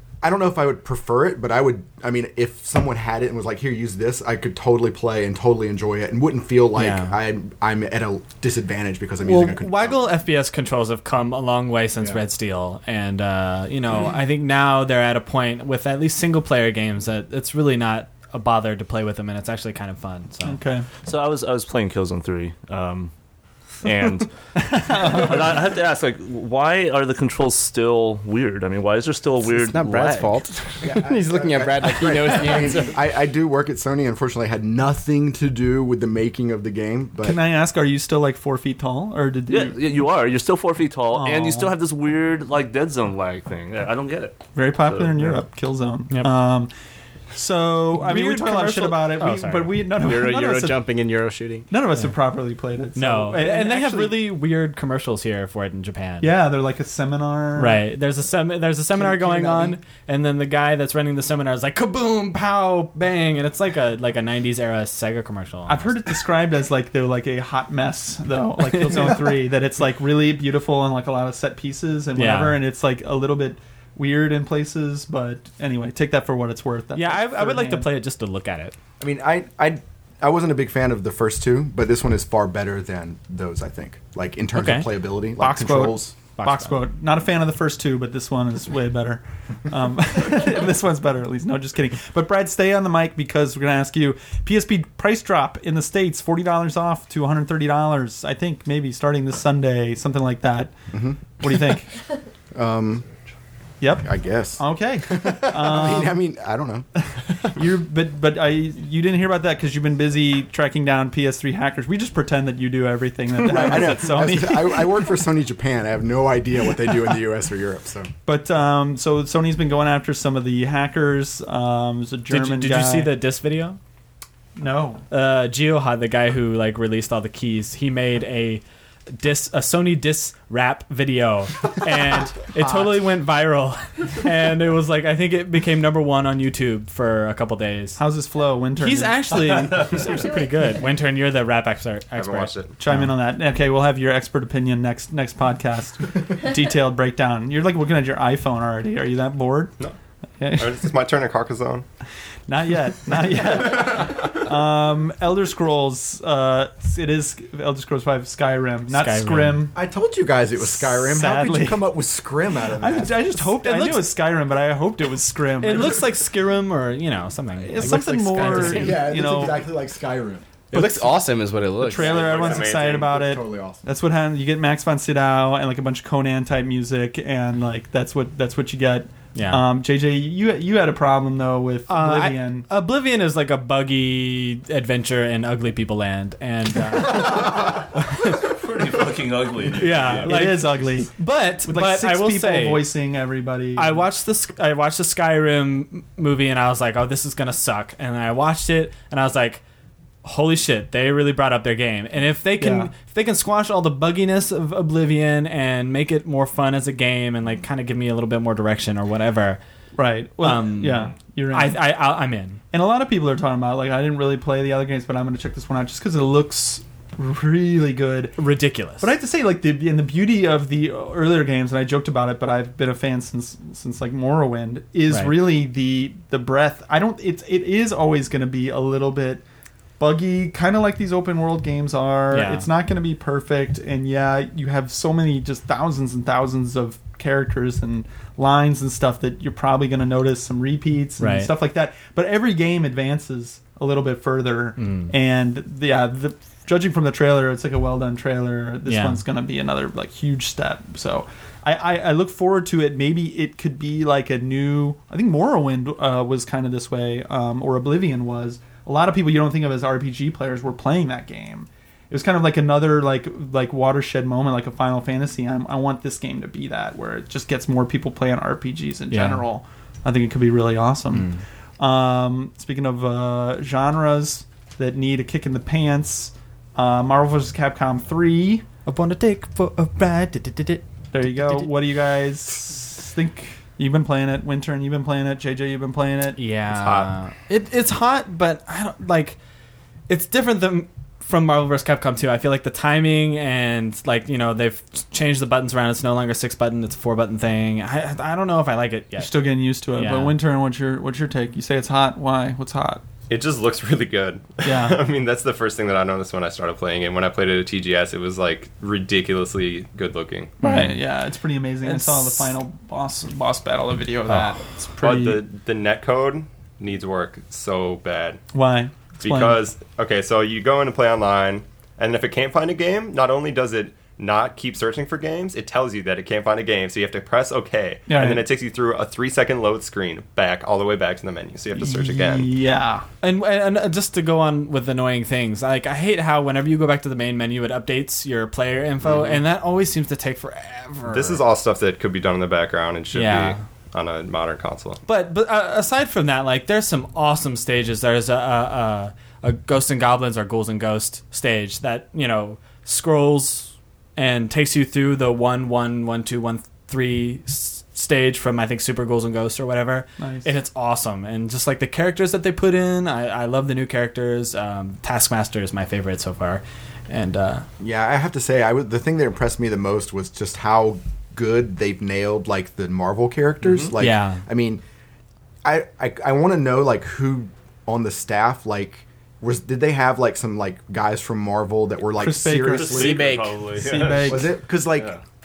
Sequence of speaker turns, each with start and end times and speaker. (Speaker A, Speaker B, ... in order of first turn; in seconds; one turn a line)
Speaker A: 0.2-10.1
Speaker B: 6.8-7.1
Speaker B: 9.2-20.6
Speaker C: 20.4-20.9
Speaker D: 21.0-23.1
Speaker D: 23.8-24.3
Speaker C: 24.6-25.7
Speaker D: 24.9-30.4
Speaker E: 29.5-33.0
Speaker A: 30.8-37.4
Speaker C: 37.2-40.1
Speaker D: 39.5-45.4
Speaker C: 41.1-41.7
Speaker C: 44.5-46.7
Speaker C: 47.3-50.8
Speaker B: 47.9-49.8
Speaker E: 50.0-51.7
Speaker C: 51.7-54.3
Speaker B: 52.9-56.3
Speaker C: 56.2-57.8
Speaker B: 57.6-66.0
Speaker C: 59.0-59.7
Speaker C: 65.7-77.9
Speaker B: 68.7-69.2
Speaker B: 72.2-72.6
Speaker B: 76.9-78.7
Speaker A: 79.0-86.1
Speaker B: 84.5-84.9
Speaker C: 85.4-100.8
Speaker B: 86.4-86.8
Speaker A: 100.9-101.4
Speaker C: 101.3-101.9
Speaker A: 102.5-103.0
Speaker C: 103.8-106.2
Speaker A: 104.0-106.8
Speaker C: 107.4-115.0
Speaker A: 113.3-118.1
Speaker C: 118.2-123.1
Speaker B: 122.3-123.8
Speaker C: 124.6-125.0
Speaker B: 125.1-138.0
Speaker C: 138.0-139.4
Speaker B: 138.8-143.1
Speaker F: 142.2-142.7
Speaker C: 142.8-149.7
Speaker C: 150.4-150.8
Speaker F: 150.6-151.8
Speaker C: 152.5-159.8
Speaker B: 158.9-159.7
Speaker A: 159.7-163.4
Speaker C: 160.6-161.9
Speaker C: 162.8-166.0
Speaker B: 163.6-164.1
Speaker B: 165.6-169.0
Speaker C: 167.6-169.7
Speaker E: 167.8-168.9
Speaker A: 168.6-170.4
Speaker E: 170.7-172.2
Speaker C: 171.8-182.7
Speaker F: 171.9-173.2
Speaker A: 172.2-173.8
Speaker B: 179.3-179.6
Speaker B: 181.9-188.4
Speaker D: 187.4-187.7
Speaker D: 188.4-190.5
Speaker B: 189.7-192.9
Speaker C: 190.2-194.1
Speaker B: 193.8-199.6
Speaker B: 200.2-209.6
Speaker C: 202.6-202.9
Speaker C: 209.9-212.1
Speaker B: 210.4-212.6
Speaker C: 212.7-218.4
Speaker B: 218.4-219.1
Speaker C: 219.0-229.4
Speaker B: 225.1-225.5
Speaker C: 230.0-278.6
Speaker B: 232.3-232.7
Speaker B: 241.2-241.5
Speaker B: 244.8-245.1
Speaker B: 248.8-249.2
Speaker B: 269.1-269.4
Speaker B: 271.1-271.4
Speaker B: 278.9-281.7
Speaker C: 281.1-286.4
Speaker B: 286.4-289.4
Speaker F: 286.8-287.1
Speaker B: 290.1-299.3
Speaker C: 299.2-303.0
Speaker B: 299.9-300.3
Speaker F: 303.3-310.7
Speaker C: 304.6-305.0
Speaker B: 310.6-310.9
Speaker C: 310.6-315.4
Speaker B: 311.8-312.5
Speaker F: 315.0-318.4
Speaker C: 318.5-319.6
Speaker F: 319.2-332.5
Speaker C: 328.1-328.5
Speaker C: 331.8-333.1
Speaker B: 333.2-341.4
Speaker F: 341.1-345.0
Speaker B: 343.1-343.6
Speaker B: 345.1-367.6
Speaker C: 360.2-360.5
Speaker A: 367.8-374.8
Speaker B: 374.0-374.4
Speaker A: 375.6-383.4
Speaker C: 382.2-384.6
Speaker D: 382.6-385.2
Speaker E: 382.9-383.6
Speaker A: 384.2-385.1